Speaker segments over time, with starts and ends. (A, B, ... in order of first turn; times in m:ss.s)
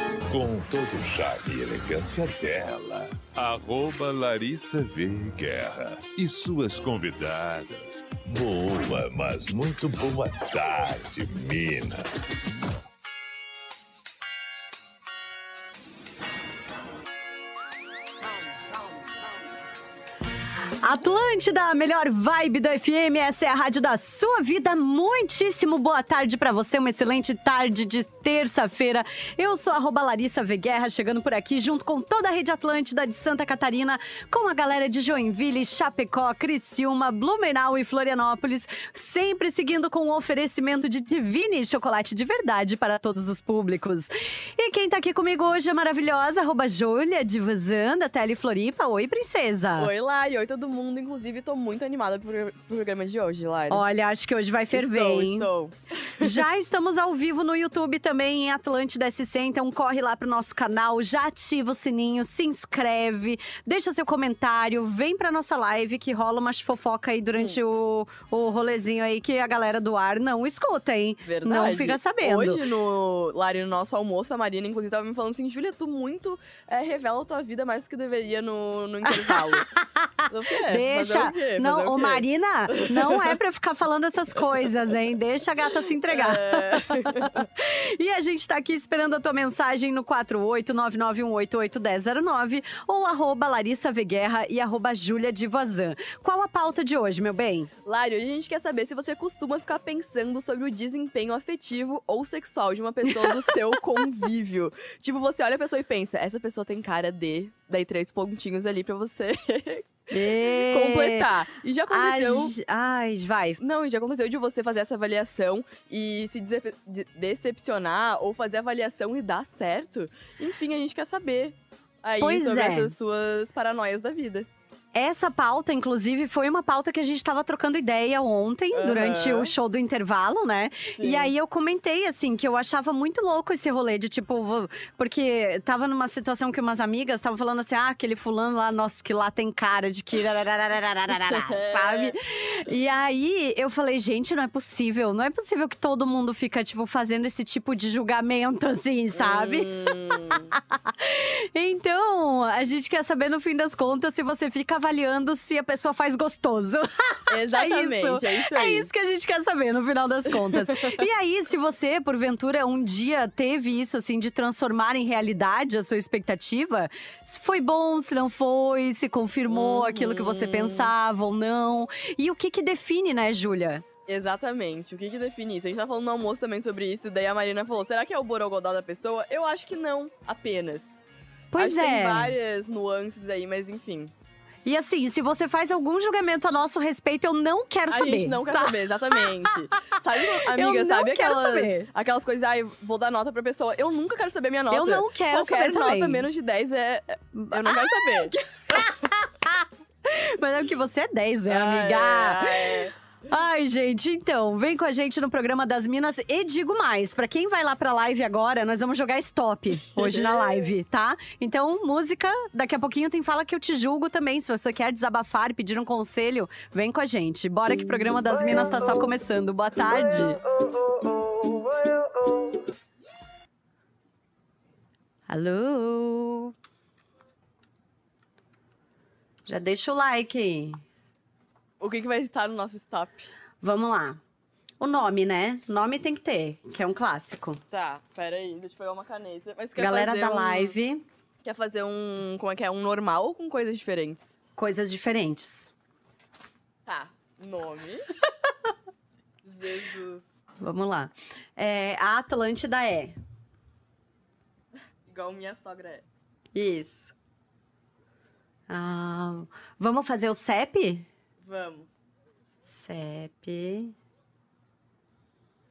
0:00.3-0:12.1 A
0:20.8-0:49.9 B
0:49.8-0:53.8 C
0:53.7-0:55.5 B
0:54.7-0:56.4 C
0:56.2-1:12.6 B
1:11.2-1:19.7 C
1:19.1-1:37.7 B
1:20.3-1:23.4 C
1:26.1-1:27.5 C
1:37.8-1:52.6 C
1:43.1-1:43.6 B
1:50.1-1:51.3 B
1:51.9-1:53.6 B
1:53.6-2:04.5 C
2:02.2-2:02.9 B
2:04.9-2:29.9 B
2:08.7-2:09.5 C
2:11.0-2:11.3 C
2:21.2-2:22.2 C
2:29.1-2:30.6 C
2:30.5-2:53.8 B
2:37.3-2:38.9 C
2:40.5-2:41.0 C
2:49.5-2:50.9 C
2:54.1-3:01.0 C
3:01.5-3:02.4 B
3:01.6-3:04.1 C
3:04.6-3:09.5 B
3:07.9-3:18.4 C
3:10.2-3:11.9 B
3:14.7-3:16.3 B
3:17.3-3:40.4 B
3:21.5-3:23.0 C
3:30.0-3:30.4 C
3:45.3-3:46.5 B
3:49.5-3:50.8 B
3:51.8-3:53.4 C
3:53.6-3:54.2 B
3:54.8-3:57.6 B
3:57.7-4:00.8 C
3:59.8-4:01.1 B
4:01.4-4:04.3 C
4:04.6-4:05.7 B
4:06.9-4:08.1 C
4:09.4-4:10.3 C
4:10.6-4:13.2 B
4:15.1-4:16.1 C
4:16.6-4:17.1 B
4:18.7-4:21.1 B
4:21.4-4:21.9 C
4:22.6-4:24.0 B